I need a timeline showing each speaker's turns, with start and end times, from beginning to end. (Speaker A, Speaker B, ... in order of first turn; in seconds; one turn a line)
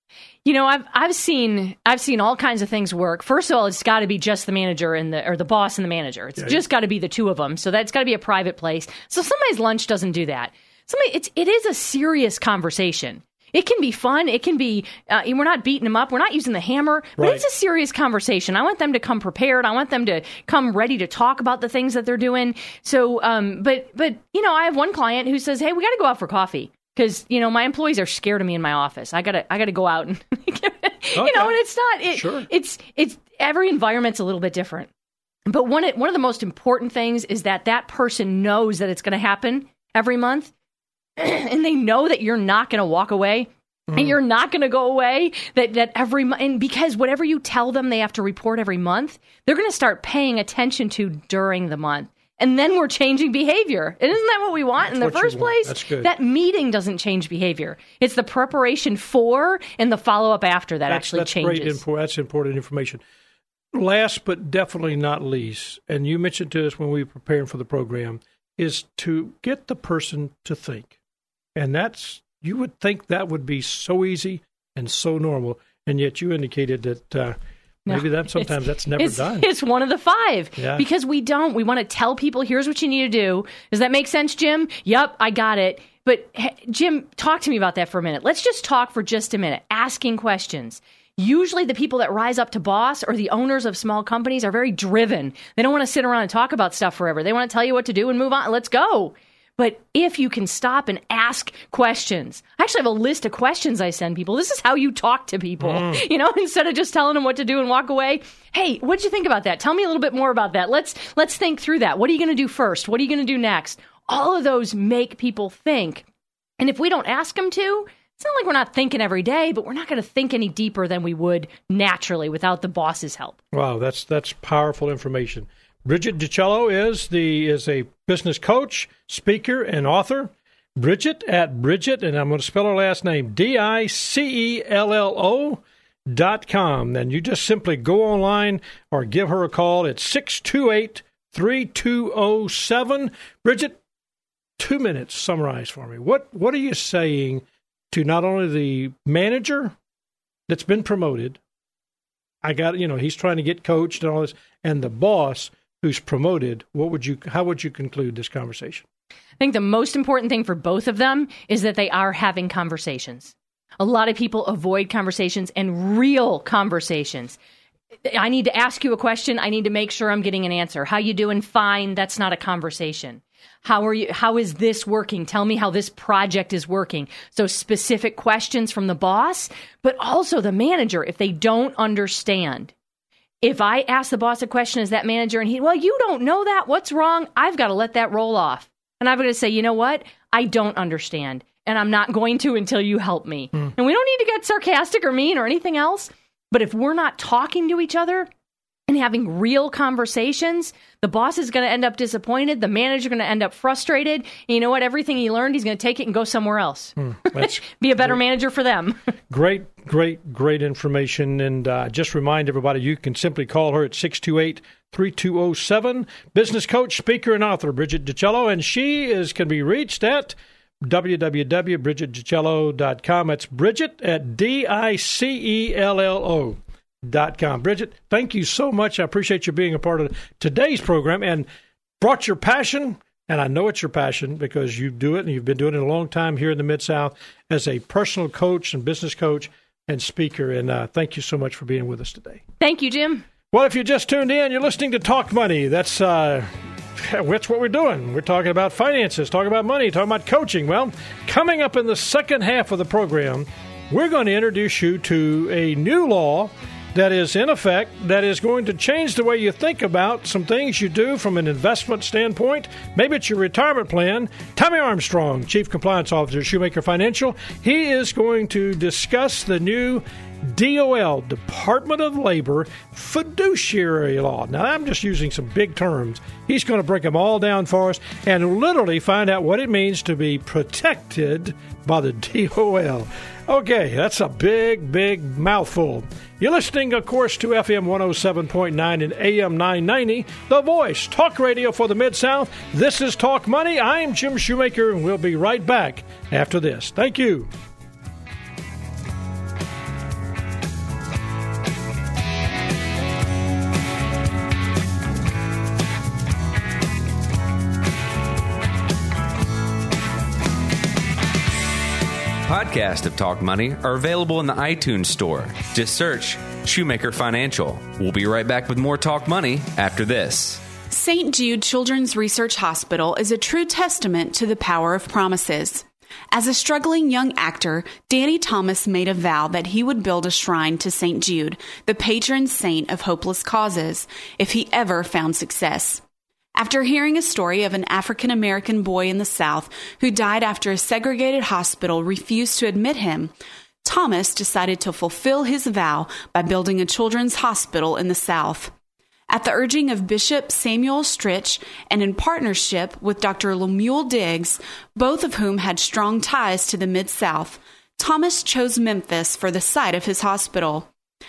Speaker A: 0.4-34.9
Speaker B: 17.2-17.4
Speaker B: 31.1-32.5
Speaker A: 35.5-40.5
Speaker A: 41.2-61.8
Speaker B: 54.8-56.1
Speaker B: 60.9-63.0
Speaker B: 63.7-70.9
Speaker B: 71.5-79.5
Speaker A: 77.9-116.0
Speaker B: 80.6-80.8
Speaker B: 105.6-106.0
Speaker A: 116.6-123.4
Speaker B: 123.5-143.8
Speaker B: 144.6-149.7
Speaker B: 150.5-151.4
Speaker B: 152.4-158.8
Speaker A: 159.4-167.4
Speaker A: 168.0-182.7
Speaker A: 183.4-198.3
Speaker A: 198.9-209.0
Speaker B: 207.0-208.2
Speaker B: 209.3-231.5
Speaker B: 232.0-242.4
Speaker A: 242.6-243.2
Speaker B: 243.5-297.5
Speaker C: 312.4-320.6
Speaker D: 320.9-336.0
Speaker D: 336.6-343.3
Speaker D: 343.8-348.7
Speaker D: 349.3-360.9